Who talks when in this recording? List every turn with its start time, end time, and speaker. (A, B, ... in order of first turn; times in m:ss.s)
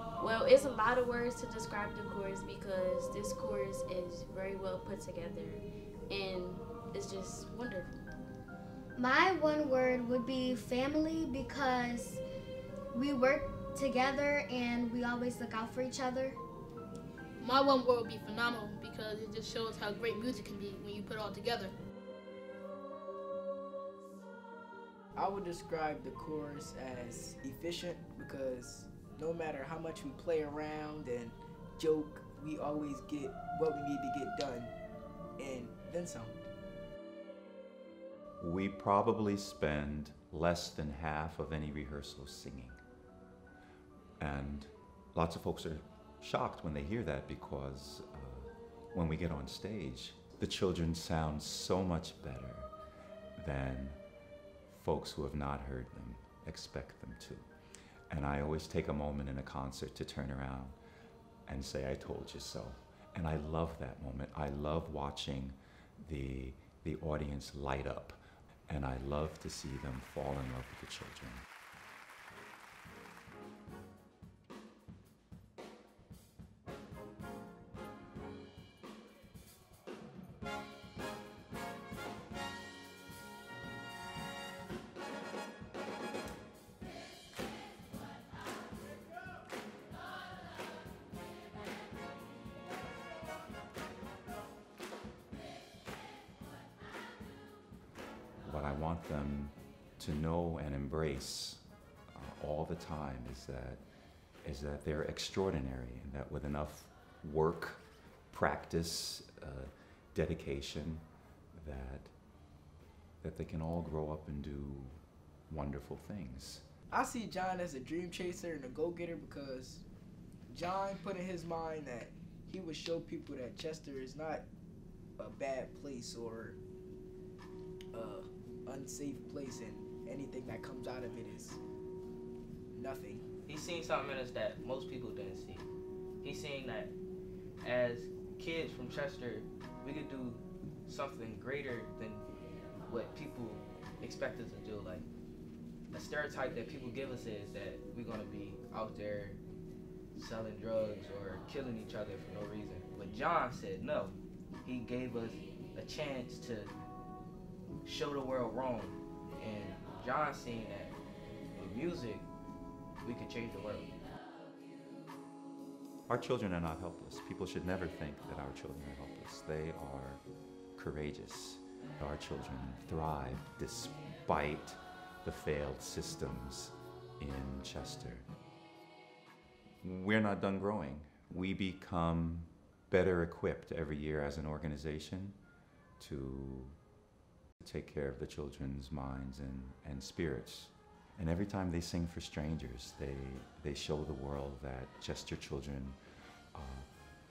0:00.2-0:08.0 A
0:09.0-0:12.2 B
0:12.9-0:16.4 B
0:17.4-0:21.7 C
0:25.2-0:34.8 D
0:35.4-0:36.4 D
0:38.4-0:42.8 E
0:44.2-0:52.7 E
0:53.4-0:54.0 E
0:54.7-0:57.5 E
0:58.1-1:00.8 E
1:01.5-1:11.4 E
1:38.4-1:43.8 E
1:44.4-1:52.1 E
1:53.2-1:56.6 E
1:56.9-1:59.8 D
2:00.5-2:04.4 D
2:05.2-2:06.6 D
2:07.9-2:11.6 D
2:12.7-2:13.3 D
2:13.4-2:15.7 F
2:16.2-2:16.9 F
2:17.6-2:22.2 F
2:22.9-2:25.1 F
2:25.9-2:29.4 F
2:30.2-2:36.7 F
2:37.8-2:40.9 F
2:41.6-2:42.3 F
2:43.0-2:43.9 F
2:46.1-2:50.2 E
2:50.8-2:58.3 E
2:59.8-3:05.4 E
3:06.0-3:06.8 E
3:07.6-3:16.0 E
3:16.6-3:16.9 E